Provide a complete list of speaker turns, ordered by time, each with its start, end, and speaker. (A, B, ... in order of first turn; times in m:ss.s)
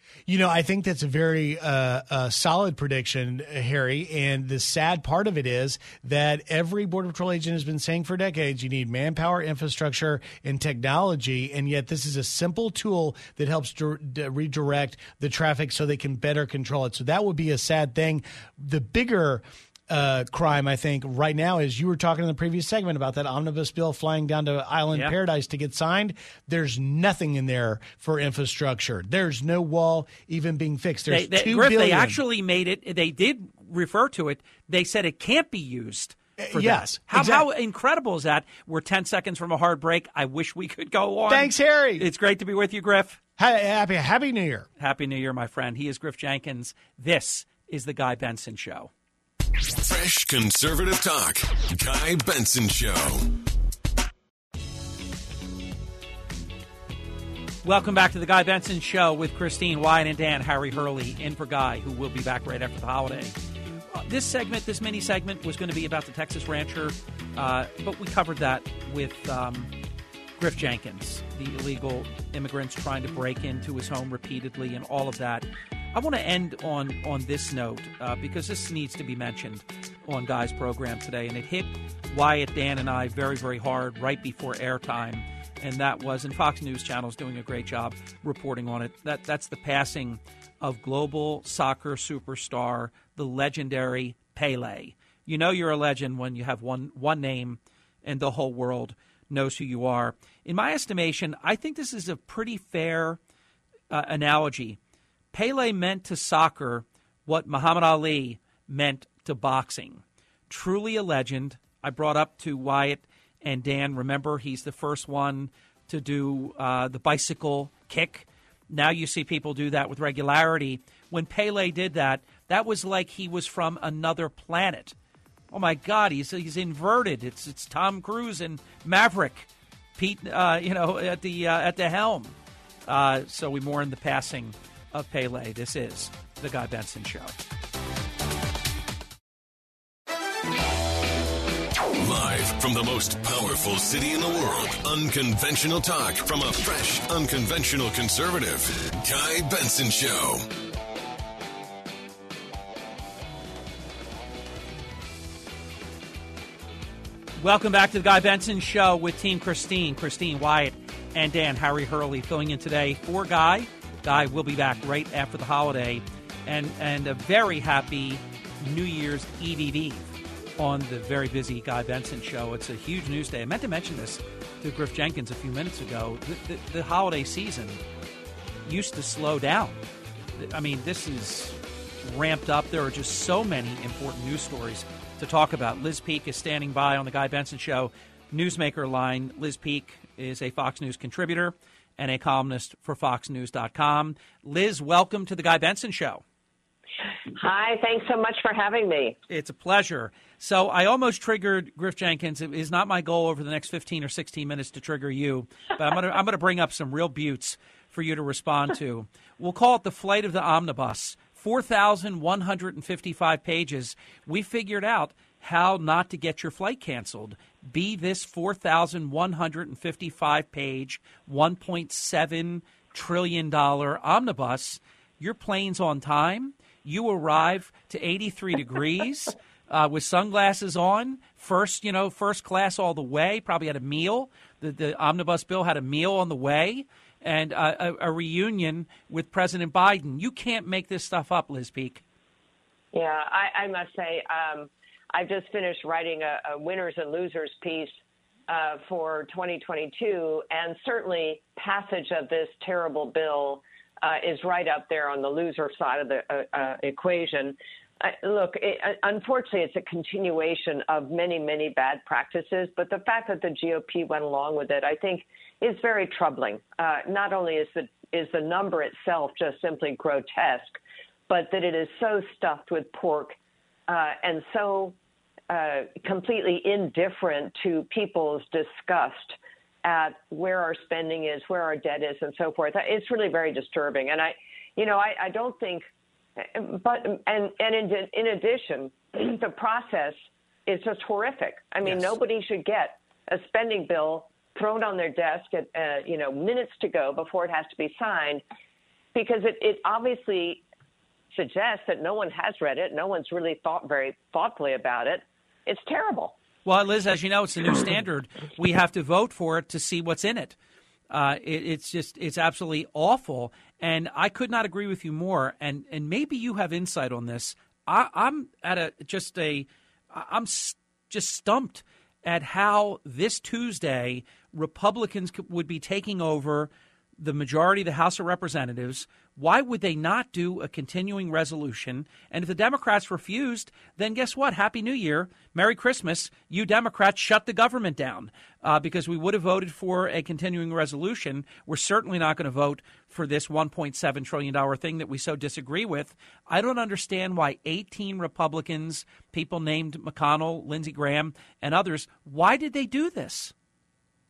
0:00.3-0:32.2 A
0:31.1-0:43.2 B
0:36.4-0:37.5 A
0:41.3-0:42.1 A
0:43.4-0:44.7 A
0:44.8-0:48.9 B
0:49.8-0:53.3 C
0:57.6-1:03.3 B
1:03.9-1:09.7 B
1:10.4-1:43.2 B
1:43.9-1:44.8 B
1:45.3-2:05.0 B
2:05.5-2:12.3 B
2:12.8-2:17.4 B
2:22.0-2:30.5 C
2:37.4-2:57.8 B
2:58.6-2:59.8 B
3:00.4-3:16.2 B
3:17.3-3:19.2 D
3:19.3-4:02.0 B
4:02.9-4:08.0 D
4:08.5-4:33.4 D
4:33.9-4:35.0 D
4:35.5-4:58.4 D
4:51.8-4:52.1 B
4:59.1-5:00.6 D
5:01.3-5:06.3 D
5:06.6-5:10.6 B
5:11.1-5:53.5 B